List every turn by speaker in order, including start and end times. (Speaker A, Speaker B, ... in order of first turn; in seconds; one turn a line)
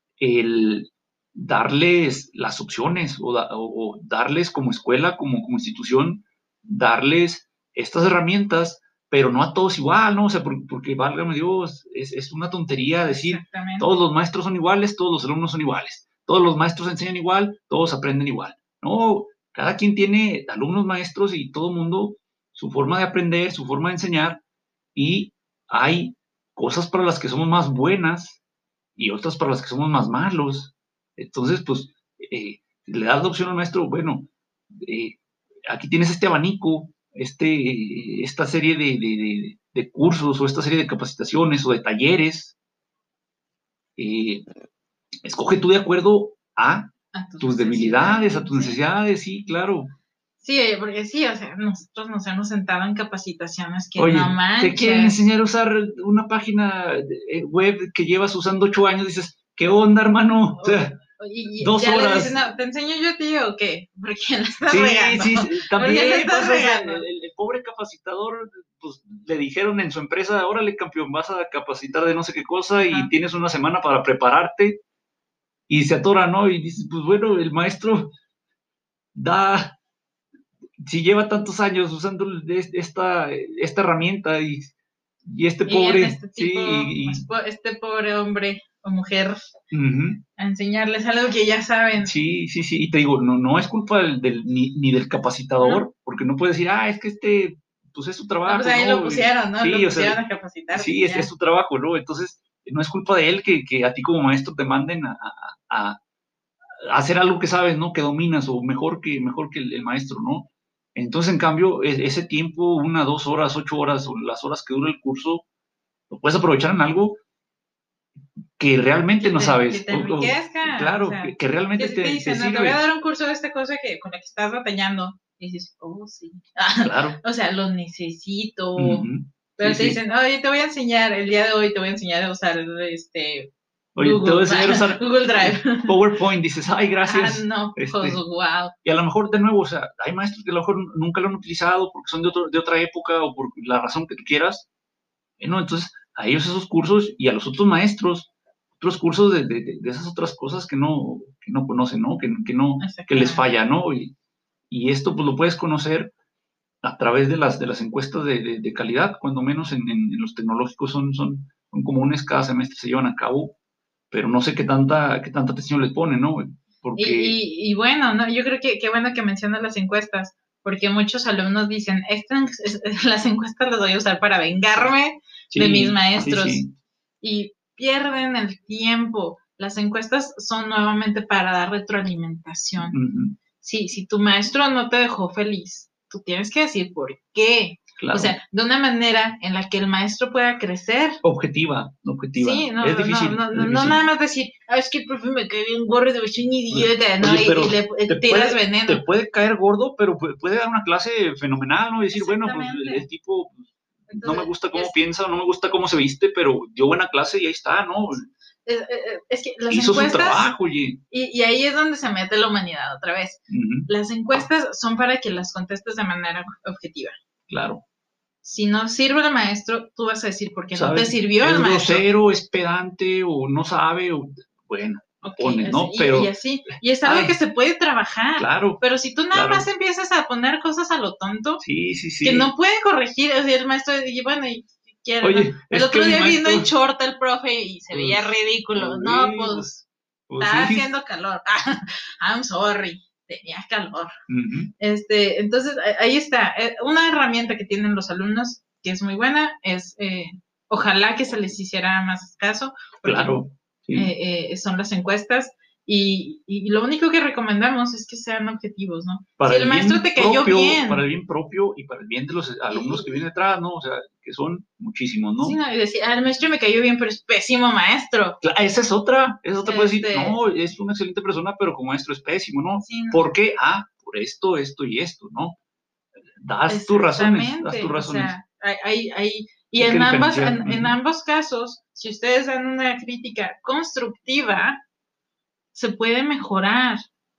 Speaker A: 0.2-24.4
Speaker B: 13.1-13.9
Speaker A: 24.9-28.4
Speaker A: 29.0-42.5
Speaker A: 44.0-44.5
Speaker A: 45.2-49.9
Speaker B: 47.1-48.8
Speaker B: 50.4-55.2
Speaker A: 54.0-61.0
Speaker B: 60.6-67.1
Speaker A: 61.6-62.4
Speaker A: 64.7-74.8
Speaker B: 72.8-73.1
Speaker A: 75.7-78.1
Speaker A: 79.1-79.8
Speaker A: 80.8-84.7
Speaker A: 85.2-87.3
Speaker B: 85.7-89.6
Speaker A: 89.7-90.2
Speaker B: 90.4-92.2
Speaker A: 92.0-100.2
Speaker B: 98.5-101.3
Speaker A: 100.7-106.0
Speaker A: 106.8-115.4
Speaker A: 116.1-117.2
Speaker A: 118.6-122.8
Speaker B: 119.2-136.0
Speaker A: 126.8-127.2
Speaker A: 128.8-130.0
Speaker A: 133.9-138.2
Speaker B: 137.0-138.7
Speaker A: 138.8-144.7
Speaker A: 145.4-154.1
Speaker B: 152.8-153.4
Speaker A: 154.7-156.1
Speaker A: 156.8-163.6
Speaker A: 164.1-167.4
Speaker B: 167.0-176.6
Speaker A: 175.5-176.7
Speaker B: 177.2-183.0
Speaker A: 182.8-183.4
Speaker B: 183.6-191.2
Speaker A: 188.0-188.4
Speaker A: 191.2-194.0
Speaker B: 192.4-199.0
Speaker A: 196.7-208.3
Speaker B: 202.1-203.1
Speaker B: 204.1-205.0
Speaker B: 208.7-210.5
Speaker A: 209.7-211.0
Speaker B: 211.1-217.1
Speaker A: 213.5-213.9
Speaker A: 217.5-217.8
Speaker B: 218.4-222.1
Speaker A: 220.7-226.3
Speaker B: 225.2-231.6
Speaker A: 227.0-227.3
Speaker A: 228.4-229.7
Speaker A: 231.6-232.5
Speaker B: 232.2-239.8
Speaker A: 235.2-236.7
Speaker A: 237.9-240.9
Speaker B: 240.4-244.1
Speaker A: 244.3-244.7
Speaker B: 244.8-253.4
Speaker A: 253.0-254.1
Speaker B: 253.9-261.1
Speaker A: 259.4-265.6
Speaker B: 262.7-263.2
Speaker B: 265.4-268.4
Speaker A: 268.4-275.6
Speaker B: 269.6-270.4
Speaker B: 272.8-273.2
Speaker A: 276.4-278.3
Speaker B: 276.7-284.8
Speaker A: 279.8-280.9
Speaker B: 285.7-287.0